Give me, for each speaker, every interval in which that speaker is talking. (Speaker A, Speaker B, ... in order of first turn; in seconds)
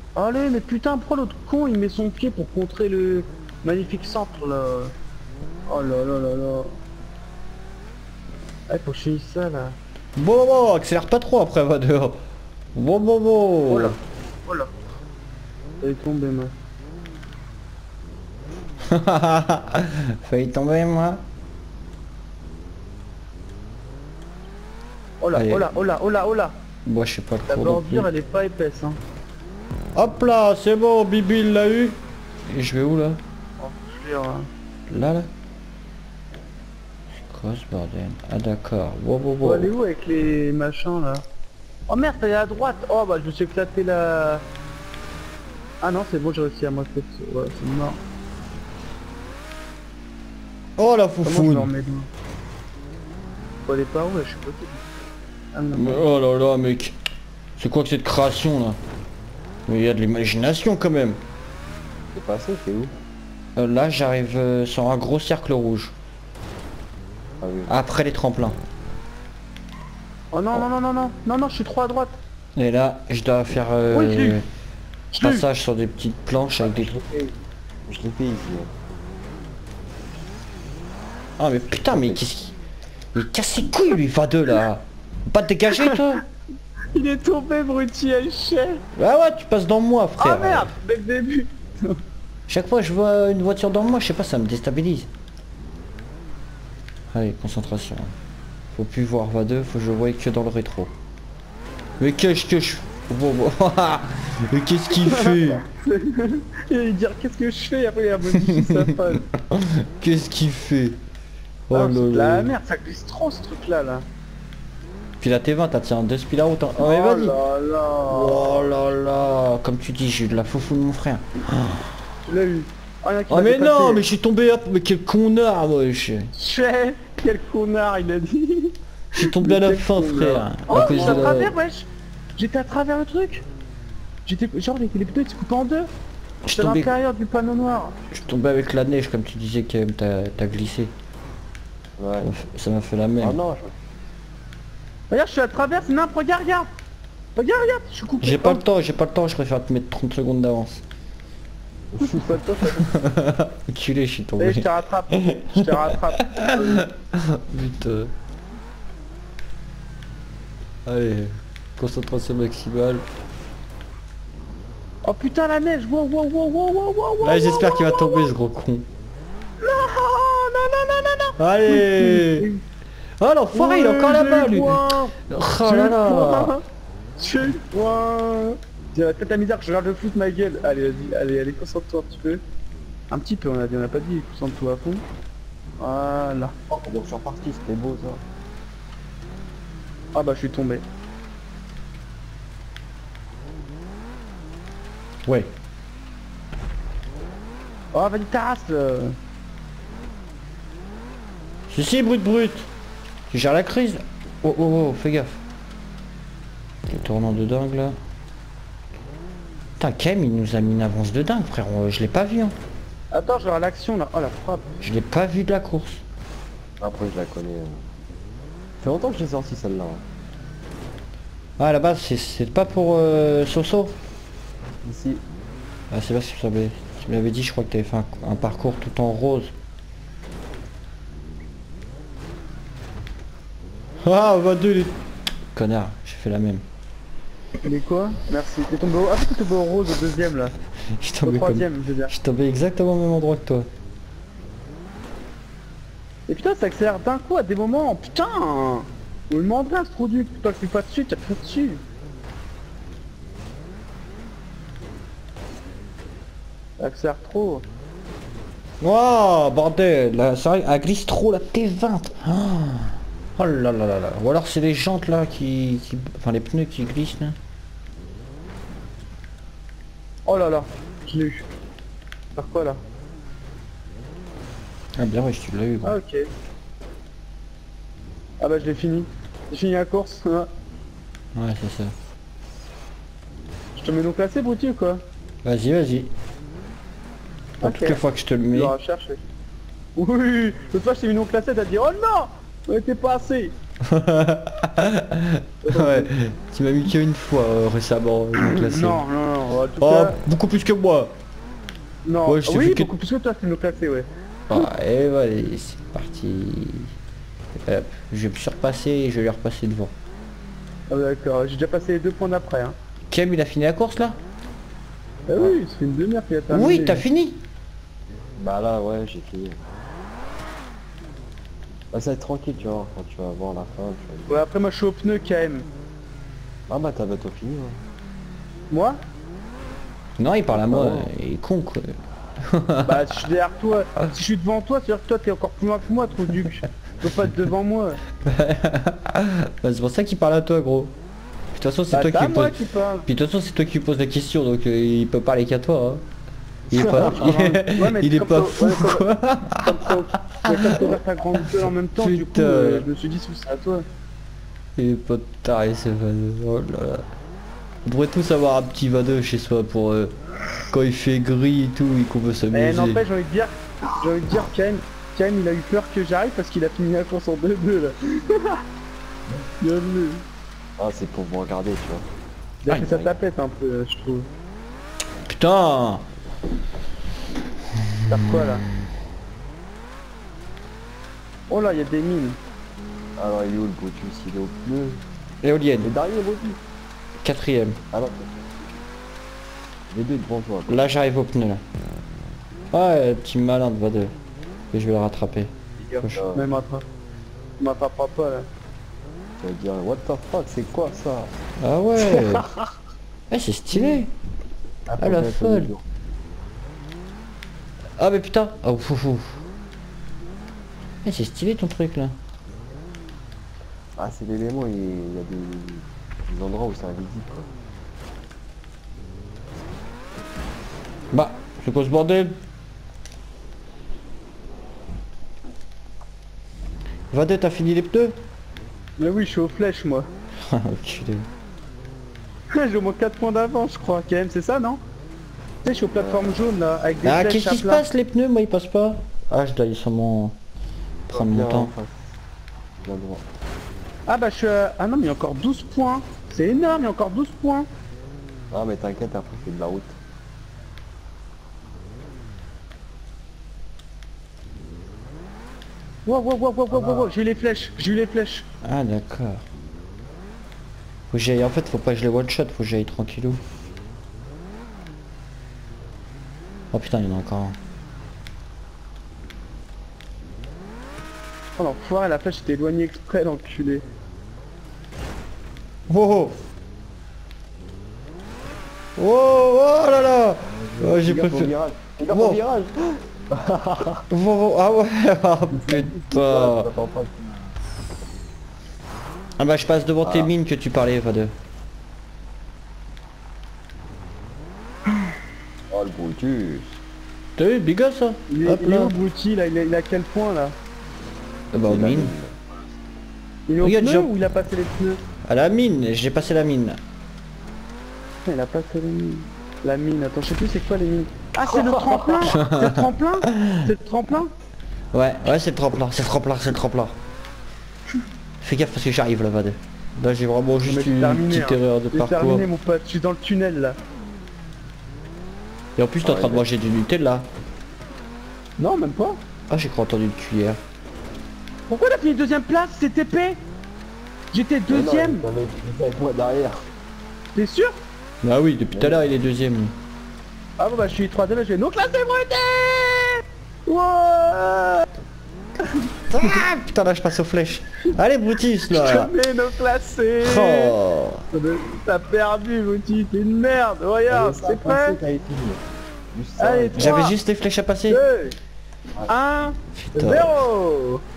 Speaker A: 0.1-4.9, 5.7-6.8, 8.7-9.8, 13.7-14.7, 15.8-16.5, 25.2-26.6, 27.5-29.0, 33.6-34.5, 39.4-41.2, 41.9-44.4, 45.8-48.0, 51.2-52.1, 53.6-54.8, 55.5-56.0, 70.3-72.2, 73.9-74.4, 75.1-75.4, 85.7-86.2, 86.9-88.8, 90.2-92.0, 105.0-109.2, 111.7-114.0, 116.8-118.7, 122.2-124.0, 126.3-133.4, 134.2-135.9, 136.5-138.0, 145.1-146.7, 147.3-148.6, 152.0-152.9, 154.4-156.8, 165.0-168.3, 169.6-172.6, 173.5-176.6, 177.2-182.4, 183.1-185.0, 185.8-186.5, 190.1-190.8, 197.9-199.2, 213.1-214.8, 237.6-240.5, 241.2-242.2, 246.3-251.8, 256.8-257.6, 270.2-271.4, 272.4-272.8, 275.8-276.3, 278.4-280.5, 283.8-285.0, 287.6-288.0, 288.5-289.2, 289.9-293.5, 295.6-296.1, 298.3-300.2, 302.0-304.7, 310.9-312.8, 315.3-317.0, 324.3-325.6, 328.7-329.0, 332.8-338.0, 341.9-343.1, 347.3-349.1, 349.6-353.8, 362.5-368.6, 369.6-370.2, 372.6-374.3, 378.1-378.6, 381.5-382.4, 396.2-396.9, 397.6-398.5, 429.0-430.1, 432.5-434.8, 435.6-437.8, 444.1-447.7, 456.1-458.5, 471.6-473.8, 498.3-500.6, 503.5-505.0, 508.2-514.3, 520.6-523.8, 528.6-529.2, 531.7-533.4, 534.3-535.2, 537.3-537.8, 540.6-544.9, 545.7-546.4, 548.7-550.8, 551.3-555.0, 556.4-557.1, 557.9-558.4, 559.0-561.0
Speaker B: 10.2-12.2, 12.7-13.9, 18.9-21.2, 25.3-25.7, 26.8-28.1, 29.9-33.2, 34.9-35.3, 37.2-39.7, 50.8-51.7, 55.7-56.9, 57.6-58.8, 59.7-61.2, 63.5-65.9, 67.7-68.6, 72.5-74.4, 75.2-77.0, 81.4-82.6, 83.1-86.2, 88.9-90.7, 92.5-95.1, 97.1-98.1, 98.7-100.9, 102.0-105.6, 108.3-111.0, 111.7-112.5, 115.2-117.3, 118.1-121.8, 123.3-126.3, 129.1-131.5, 136.4-136.9, 138.1-140.9, 142.2-143.4, 148.2-150.8, 152.8-158.1, 160.8-163.1, 167.2-168.9, 171.4-172.5, 173.2-176.5, 201.7-202.7, 203.3-205.4, 206.9-208.0, 209.8-212.5, 214.8-216.0, 221.6-223.9, 225.9-229.5, 234.0-234.9, 235.5-236.6, 241.0-243.7, 258.8-267.4, 275.0-276.0, 281.3-281.9, 285.4-286.1, 287.6-288.7, 293.8-299.0, 299.8-301.1, 302.2-302.9, 304.5-306.9, 307.6-309.9, 313.1-314.2, 316.5-317.4, 330.2-331.9, 332.4-333.0, 338.2-340.9, 341.5-342.5, 343.1-346.0, 346.7-352.9, 354.8-357.0, 357.8-360.1, 360.7-363.0, 372.7-373.0, 375.3-376.0, 377.9-378.7, 385.4-385.9, 387.2-387.8, 390.7-391.6, 392.7-394.1, 394.7-396.3, 401.6-402.5, 403.3-404.1, 405.0-405.7, 408.0-409.4, 411.0-412.1, 421.1-422.4, 427.1-428.2, 430.5-431.3, 437.0-440.3, 441.1-441.7, 458.6-459.4, 461.1-463.4, 466.7-467.6, 475.9-476.4, 479.0-481.5, 482.1-482.4, 484.1-486.7, 489.4-491.3, 497.4-498.9, 501.5-502.1, 503.6-504.1, 505.2-506.8, 512.2-513.6, 514.9-516.9, 518.4-522.5, 525.8-527.3, 529.5-530.6, 538.2-539.7, 546.1-549.1, 550.2-551.2, 556.8-558.0, 559.8-560.4
Speaker C: 62.1-62.9, 67.4-67.8, 76.7-77.3, 77.9-78.7, 81.9-82.2, 142.0-142.3, 143.2-143.7, 151.9-152.4, 186.7-188.2, 216.8-217.8, 218.8-220.0, 224.8-225.2, 315.3-315.6, 318.4-319.6, 321.9-324.4, 326.7-327.8, 330.5-331.1, 346.7-347.3, 370.8-372.1, 383.2-385.0, 385.8-386.6, 387.9-388.5, 389.9-390.9, 396.1-396.5, 399.4-401.3, 404.9-405.8, 413.9-417.5, 435.9-436.4, 441.1-442.1, 442.8-443.2, 448.5-449.9, 456.7-457.0, 480.7-484.0, 485.6-487.5, 490.0-490.3, 495.7-496.8, 501.6-502.4, 511.4-512.3, 526.0-526.5, 534.7-536.6, 538.7-539.0, 554.1-555.6, 556.1-557.0